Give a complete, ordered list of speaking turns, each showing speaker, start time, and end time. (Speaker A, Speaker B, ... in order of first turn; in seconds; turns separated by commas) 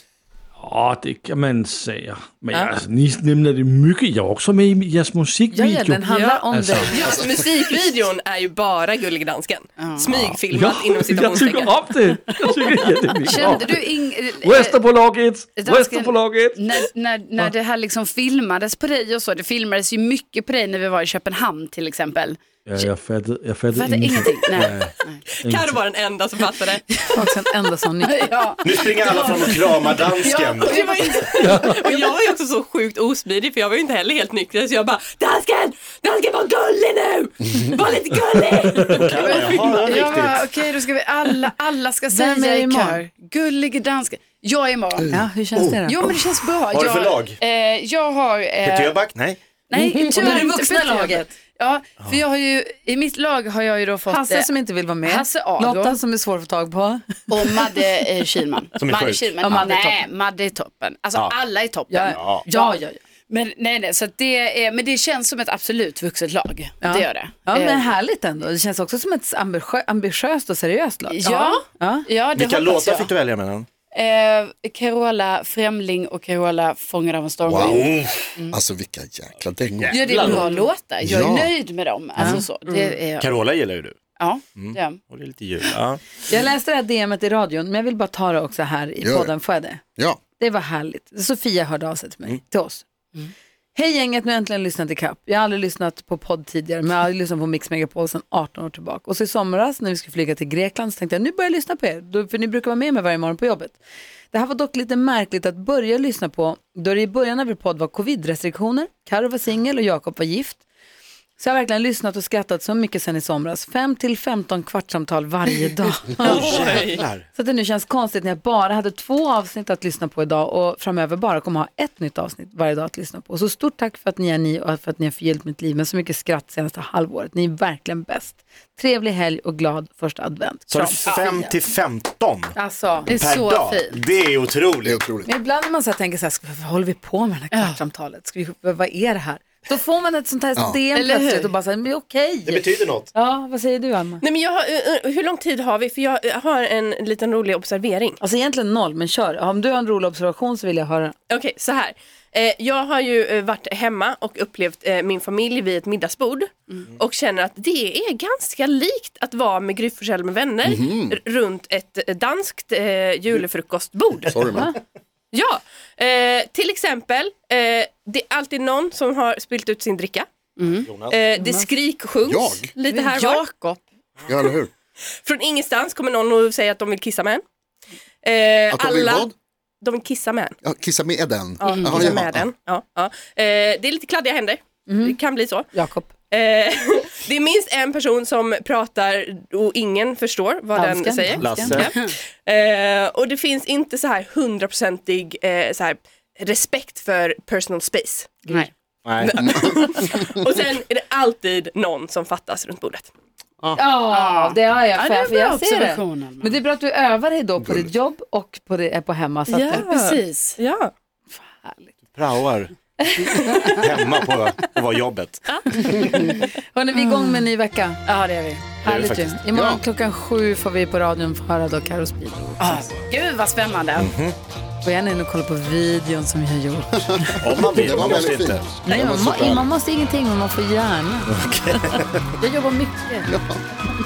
Speaker A: 0.6-7.2, Speaker B: 2.5-2.8, Speaker B: 5.5-7.0, Speaker C: 6.1-11.8, Speaker D: 9.8-10.1, Speaker A: 10.1-17.5, Speaker D: 13.3-14.8, Speaker D: 15.6-22.4, Speaker A: 22.7-25.8, Speaker D: 23.7-25.2, Speaker C: 25.4-27.1, Speaker B: 27.1-28.5, Speaker D: 28.0-31.3, Speaker E: 28.6-31.3, Speaker C: 30.6-40.0, Speaker A: 31.4-31.8, Speaker D: 31.8-32.1, Speaker A: 38.6-39.0, Speaker E: 38.9-40.9, Speaker D: 39.2-45.1, Speaker B: 42.1-43.0, Speaker F: 45.0-45.3, Speaker B: 45.1-46.0, Speaker E: 45.5-46.0, Speaker D: 45.9-49.0, Speaker E: 46.7-47.4, Speaker E: 48.6-49.4, Speaker D: 49.7-56.0, Speaker B: 50.1-51.3, Speaker B: 54.1-57.7, Speaker D: 57.3-62.8, Speaker E: 58.8-59.6, Speaker B: 59.4-60.0, Speaker B: 61.9-63.0, Speaker E: 62.1-62.5, Speaker D: 63.3-67.9, Speaker B: 66.8-72.1, Speaker D: 71.1-73.1, Speaker E: 72.3-73.7, Speaker D: 73.9-78.6, Speaker F: 77.5-77.9, Speaker E: 77.7-78.3, Speaker F: 78.5-80.4, Speaker E: 79.8-80.5, Speaker D: 79.9-83.3, Speaker F: 81.0-81.6, Speaker B: 82.2-82.4, Speaker C: 82.7-83.0, Speaker E: 83.2-84.0, Speaker D: 84.2-85.0, Speaker E: 84.5-86.2, Speaker B: 86.3-89.8, Speaker F: 89.0-89.3, Speaker B: 90.4-92.8, Speaker B: 93.8-103.8, Speaker B: 104.3-110.6, Speaker B: 111.4-131.6, Speaker C: 116.2-117.0, Speaker E: 116.2-117.3, Speaker E: 130.7-132.6, Speaker B: 132.6-133.1, Speaker D: 133.1-134.0, Speaker E: 133.1-135.0, Speaker F: 134.8-135.3, Speaker B: 135.3-144.2, Speaker D: 137.5-137.8, Speaker F: 140.6-140.8, Speaker D: 140.9-141.5, Speaker E: 142.5-143.1, Speaker C: 144.2-148.2, Speaker B: 148.2-151.2, Speaker C: 151.3-164.4, Speaker F: 160.6-161.2, Speaker F: 164.3-164.7, Speaker B: 164.5-164.8, Speaker C: 165.3-170.3, Speaker D: 170.6-170.9, Speaker E: 170.6-171.2, Speaker C: 171.1-173.5, Speaker B: 171.4-171.7, Speaker F: 172.2-172.7, Speaker D: 172.9-173.8, Speaker F: 174.3-174.7, Speaker C: 175.2-177.4, Speaker C: 178.2-179.3, Speaker F: 178.7-179.3, Speaker C: 179.8-180.6, Speaker F: 180.6-182.5, Speaker C: 181.6-185.7, Speaker D: 181.7-182.1, Speaker B: 184.9-185.2, Speaker B: 185.7-186.1, Speaker C: 186.3-198.4, Speaker B: 190.8-191.8, Speaker E: 191.4-191.9, Speaker D: 191.8-192.1, Speaker E: 199.1-199.4, Speaker C: 199.2-203.1, Speaker F: 199.4-200.3, Speaker B: 203.8-209.9, Speaker D: 204.1-206.6, Speaker F: 207.6-207.9, Speaker D: 209.6-210.6, Speaker C: 209.6-210.9, Speaker B: 211.3-211.9, Speaker E: 212.1-212.7, Speaker B: 213.0-213.9, Speaker C: 213.2-213.7, Speaker E: 213.8-215.5, Speaker C: 215.5-216.5, Speaker B: 215.7-218.0, Speaker D: 216.0-216.2, Speaker D: 216.9-217.5, Speaker D: 218.1-218.8, Speaker E: 218.8-219.4, Speaker B: 218.8-222.9, Speaker F: 219.5-219.8, Speaker D: 222.6-224.1, Speaker E: 224.0-224.4, Speaker B: 224.8-227.9, Speaker F: 227.2-229.7, Speaker E: 227.4-228.7, Speaker B: 228.9-231.3, Speaker E: 231.3-232.3, Speaker B: 231.9-233.3, Speaker F: 233.3-233.6